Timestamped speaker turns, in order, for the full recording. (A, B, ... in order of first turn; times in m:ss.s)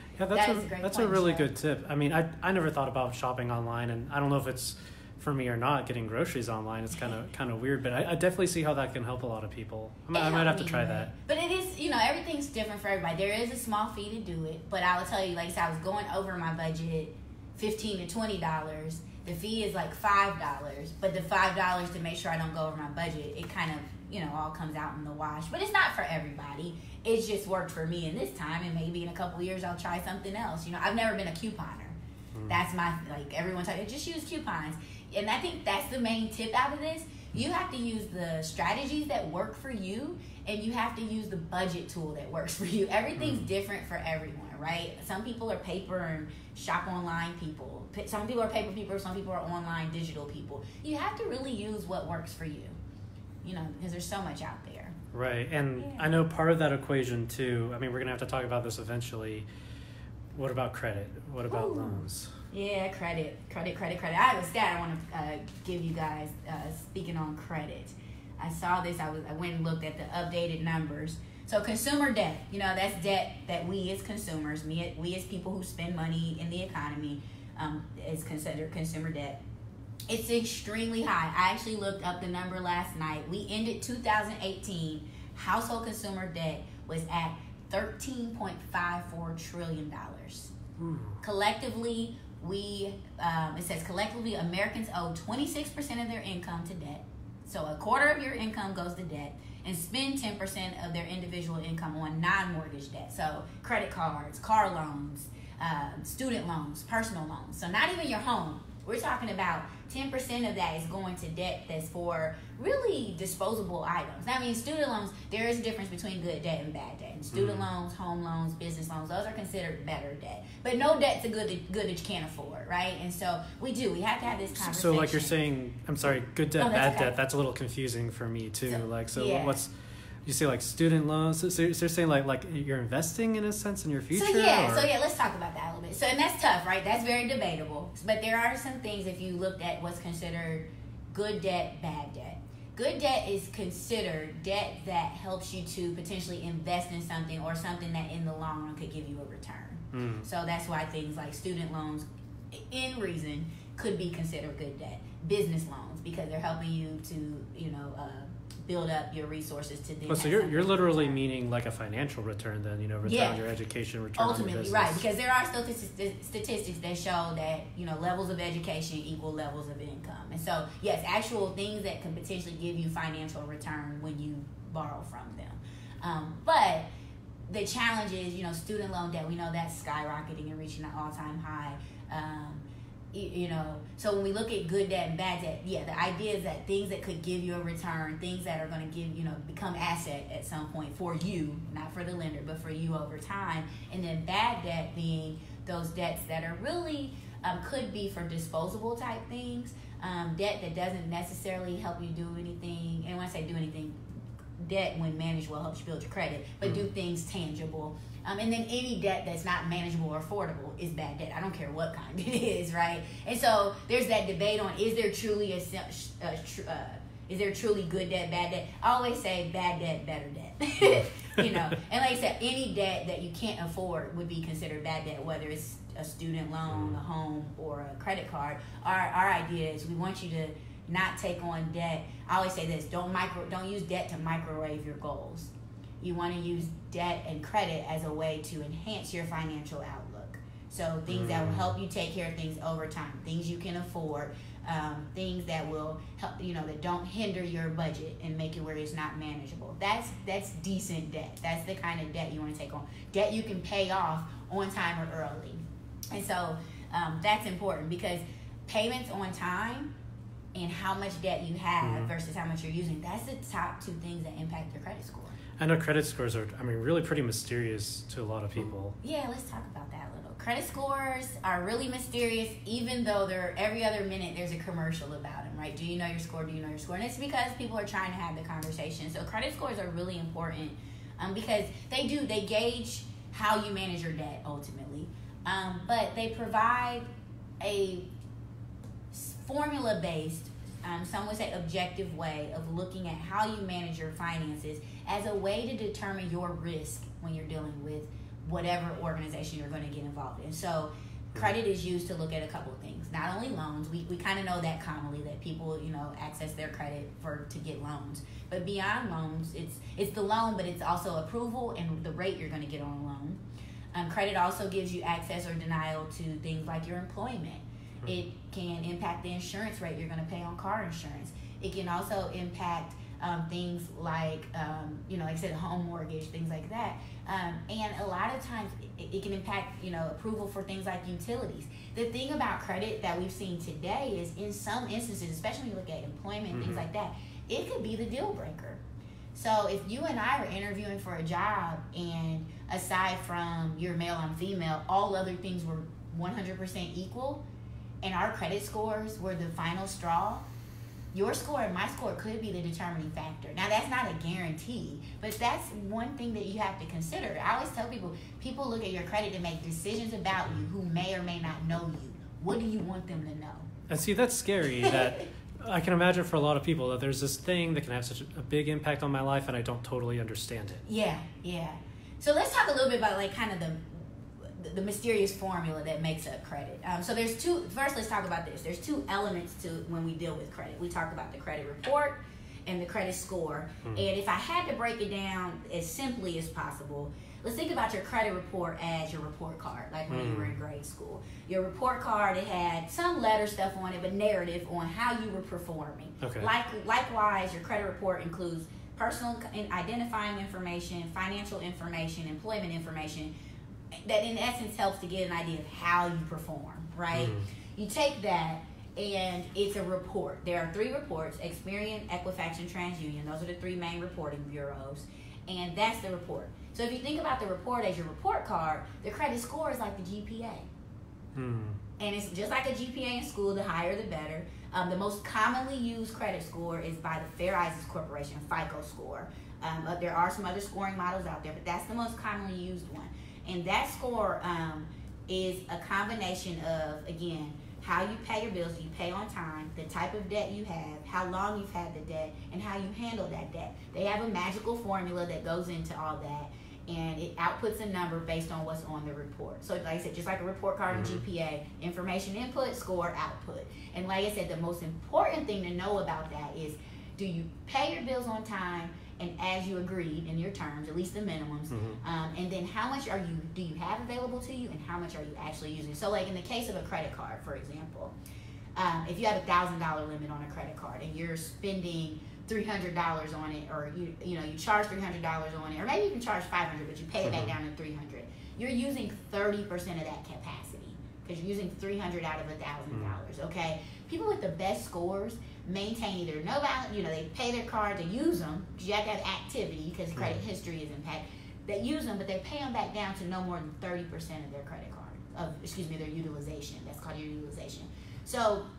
0:00.2-0:11.1 A
0:00.3-0:01.5 B
0:10.1-0:52.7 B
0:43.2-0:43.4 A
0:53.4-0:55.0 B
0:55.1-0:59.4 A
0:55.8-0:56.1 B
1:00.4-1:02.3 A
1:01.5-1:19.4 B
1:20.1-1:30.5 B
1:30.8-1:31.1 A
1:31.2-2:05.4 B
1:57.3-1:57.7 A
2:04.6-2:09.7 A
2:06.6-2:07.1 B
2:08.7-2:09.6 B
2:10.2-2:14.9 A
2:14.1-2:41.2 B
2:29.9-2:30.2 A
2:40.1-2:45.0 A
2:43.0-2:43.4 B
2:44.2-2:56.9 B
2:57.5-3:24.0 B
3:24.6-4:19.9 B
4:01.1-4:01.7 A
4:20.5-4:25.4 B
4:21.8-4:22.1 A
4:25.6-4:28.9 A
4:29.0-4:47.0 B
4:47.6-4:48.1 B
4:49.1-5:13.4 B
5:13.9-5:38.8 B
5:36.5-5:36.9 A
5:39.3-5:47.4 B
5:48.0-5:50.4 B
5:51.1-6:03.7 B
6:03.9-6:10.8 A
6:04.8-6:05.2 B
6:10.9-6:43.3 B
6:30.1-6:30.6 A
6:36.2-6:36.5 A
6:44.0-7:00.7 B
6:47.1-6:47.4 A
7:01.4-7:01.8 A
7:02.0-7:48.1 B
7:30.9-7:31.2 A
7:41.7-7:42.0 A
7:48.8-8:18.6 B
7:57.2-7:57.5 A
8:10.2-8:10.4 A